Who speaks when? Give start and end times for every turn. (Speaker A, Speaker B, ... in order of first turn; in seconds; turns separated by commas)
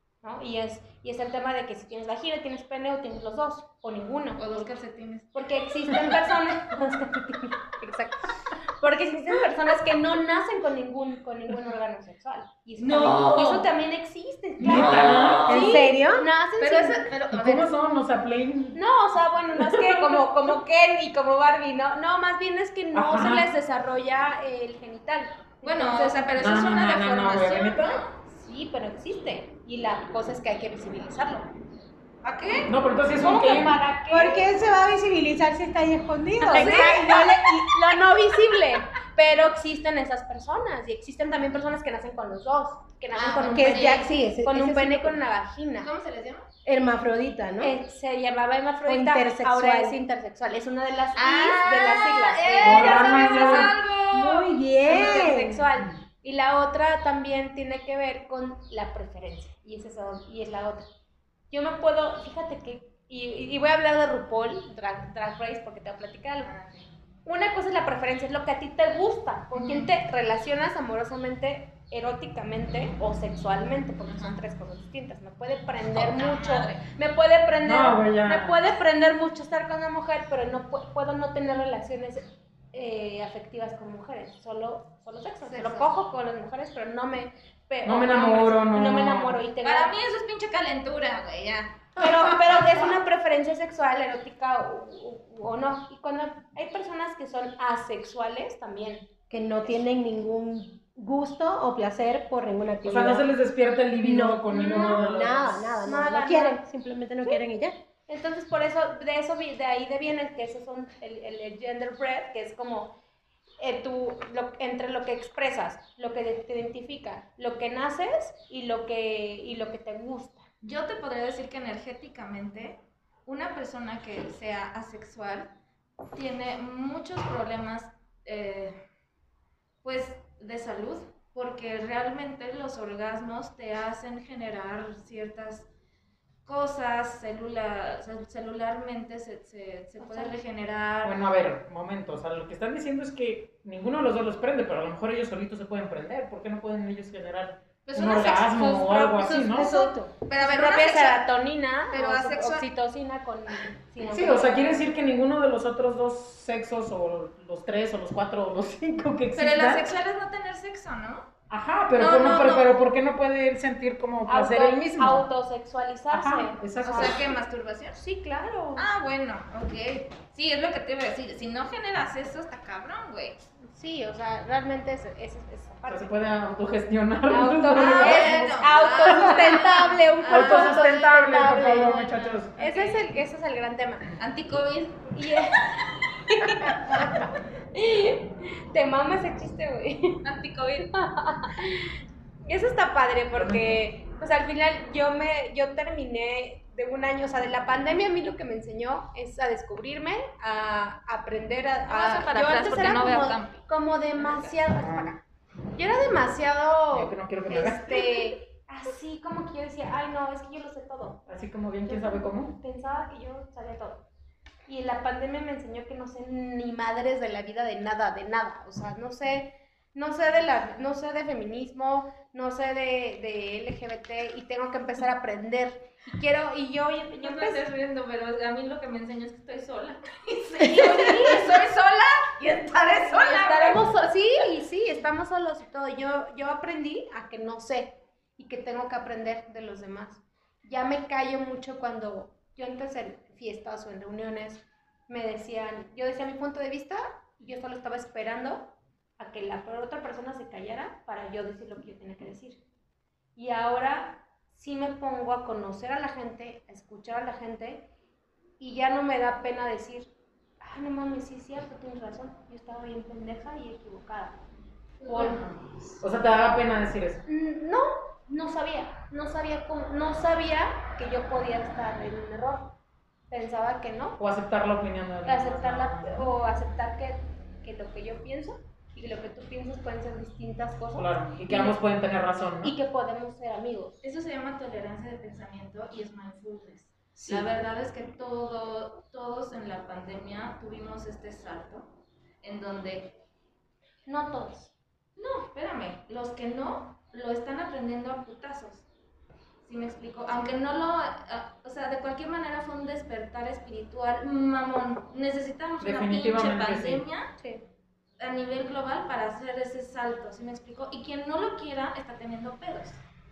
Speaker A: 0.2-4.4, Speaker B: 4.4-5.5, Speaker A: 5.3-17.1, Speaker B: 12.8-13.7, Speaker C: 14.6-15.6, Speaker B: 14.7-15.7, Speaker D: 15.4-16.3, Speaker B: 16.6-17.7, Speaker C: 17.3-18.8, Speaker A: 18.7-26.3, Speaker C: 22.9-23.5, Speaker B: 25.6-28.1, Speaker C: 26.4-28.0, Speaker A: 28.2-31.5, Speaker B: 32.2-32.7, Speaker C: 32.7-33.8, Speaker A: 33.2-34.5, Speaker D: 34.1-37.8, Speaker A: 36.4-45.9, Speaker B: 36.5-37.1, Speaker B: 43.1-44.1, Speaker D: 43.5-45.2, Speaker B: 45.8-46.5, Speaker D: 46.6-47.7, Speaker A: 47.6-53.7, Speaker D: 48.9-50.0, Speaker B: 51.1-54.6, Speaker C: 52.6-53.7, Speaker D: 54.1-55.6, Speaker A: 54.8-60.9, Speaker A: 61.5-66.5, Speaker B: 66.4-66.9, Speaker A: 67.2-89.9, Speaker B: 69.5-69.9, Speaker B: 74.1-74.4, Speaker B: 75.9-76.8, Speaker C: 77.6-78.6, Speaker B: 85.4-85.9, Speaker C: 87.8-89.4, Speaker B: 89.6-92.0, Speaker A: 92.0-99.1, Speaker D: 99.3-103.3, Speaker C: 102.8-105.5, Speaker D: 104.0-107.8, Speaker A: 104.5-106.6, Speaker A: 108.1-112.9, Speaker A: 113.6-120.5, Speaker B: 120.6-125.5, Speaker B: 126.1-128.8, Speaker B: 129.8-135.7, Speaker B: 136.4-141.2, Speaker A: 140.0-140.3, Speaker C: 141.0-149.7, Speaker B: 147.9-149.7, Speaker A: 148.9-154.8, Speaker D: 149.3-150.1, Speaker B: 150.2-151.2, Speaker B: 151.9-152.6, Speaker C: 154.0-159.8, Speaker B: 159.3-161.3, Speaker C: 161.5-165.2, Speaker B: 161.9-162.8, Speaker A: 164.3-167.2, Speaker C: 166.1-167.3, Speaker B: 166.8-168.0, Speaker A: 167.9-168.8, Speaker B: 168.8-173.4, Speaker A: 173.7-176.1, Speaker C: 175.8-179.6, Speaker A: 177.3-184.1, Speaker B: 177.8-183.1, Speaker C: 180.3-182.5, Speaker B: 184.2-185.8, Speaker A: 185.1-185.7, Speaker A: 186.2-190.2, Speaker B: 186.7-187.2, Speaker B: 190.2-190.9, Speaker A: 190.8-205.1, Speaker C: 193.3-193.8, Speaker B: 201.9-203.6, Speaker C: 204.7-205.2, Speaker A: 205.8-211.2, Speaker C: 206.9-208.1, Speaker C: 211.3-212.6, Speaker A: 211.8-214.1, Speaker A: 214.7-227.6, Speaker B: 227.1-233.8, Speaker A: 230.6-231.6, Speaker A: 232.7-252.6, Speaker A: 253.3-257.9, Speaker A: 258.6-260.1, Speaker A: 260.6-264.4, Speaker B: 265.0-265.6, Speaker A: 265.0-265.4, Speaker C: 266.0-267.2, Speaker A: 267.2-272.8, Speaker A: 273.3-274.2, Speaker C: 274.2-276.3, Speaker A: 275.2-281.8, Speaker C: 280.9-282.7, Speaker A: 282.6-283.9, Speaker B: 284.0-293.2, Speaker A: 294.1-294.7, Speaker B: 295.2-298.9, Speaker B: 299.6-307.3, Speaker C: 305.8-307.0, Speaker B: 308.2-313.0